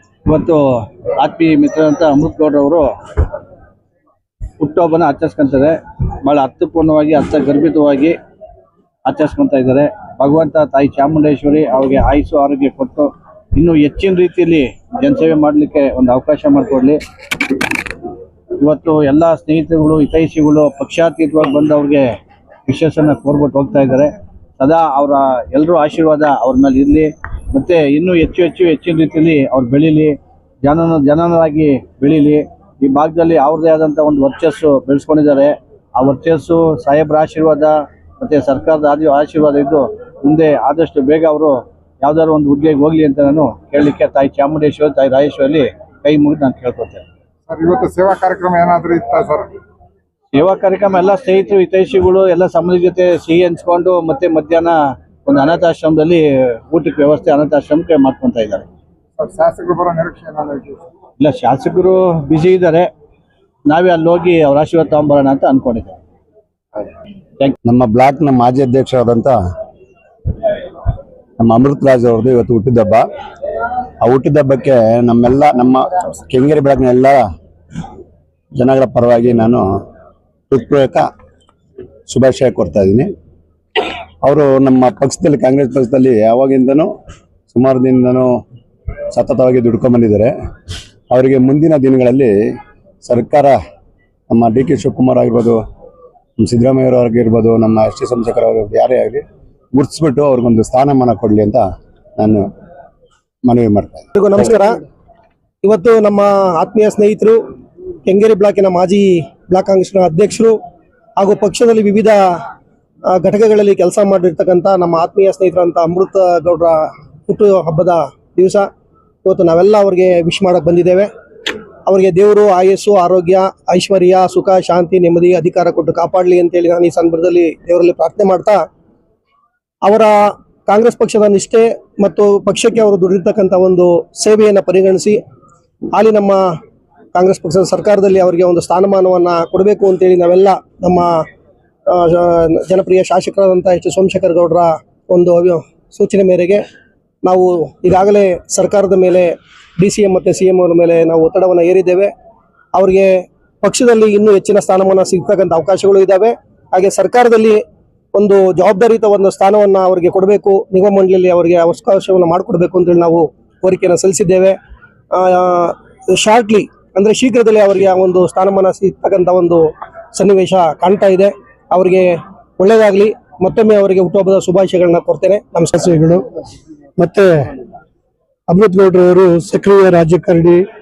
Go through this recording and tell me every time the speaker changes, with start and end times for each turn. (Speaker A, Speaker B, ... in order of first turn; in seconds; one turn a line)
Speaker A: 0.2-2.9
Speaker A: 4.6-8.2
Speaker A: 9.1-17.0
Speaker A: 18.6-22.1
Speaker A: 22.7-47.0
Speaker B: 47.5-49.5
Speaker A: 50.3-54.7
Speaker A: 55.2-58.5
Speaker B: 59.2-60.9
Speaker A: 61.2-62.9
Speaker A: 63.7-65.8
Speaker C: 67.6-69.4
Speaker C: 71.4-73.1
Speaker C: 74.0-77.2
Speaker C: 78.6-79.6
Speaker C: 80.5-81.1
Speaker C: 82.1-83.1
Speaker C: 84.2-86.9
Speaker C: 87.5-88.3
Speaker C: 89.1-90.3
Speaker C: 91.1-92.3
Speaker C: 93.0-93.6
Speaker C: 94.3-95.6
Speaker C: 96.4-99.2
Speaker C: 99.7-101.6
Speaker C: 102.2-102.5
Speaker C: 103.5-104.1
Speaker D: 104.2-104.8
Speaker D: 105.6-107.4
Speaker D: 108.0-110.5
Speaker D: 111.2-112.2
Speaker D: 113.1-118.7
Speaker D: 119.2-121.1
Speaker D: 121.9-128.6
Speaker D: 129.8-135.2
Speaker D: 135.9-136.4
Speaker D: 137.1-141.2
Speaker D: 141.9-146.6
Speaker D: 147.2-152.1
Speaker D: 152.7-157.6
Speaker D: 158.1-164.6
Speaker D: 165.1-175.8
Speaker E: 175.8-176.2
Speaker E: 177.0-177.5
Speaker E: 178.5-180.6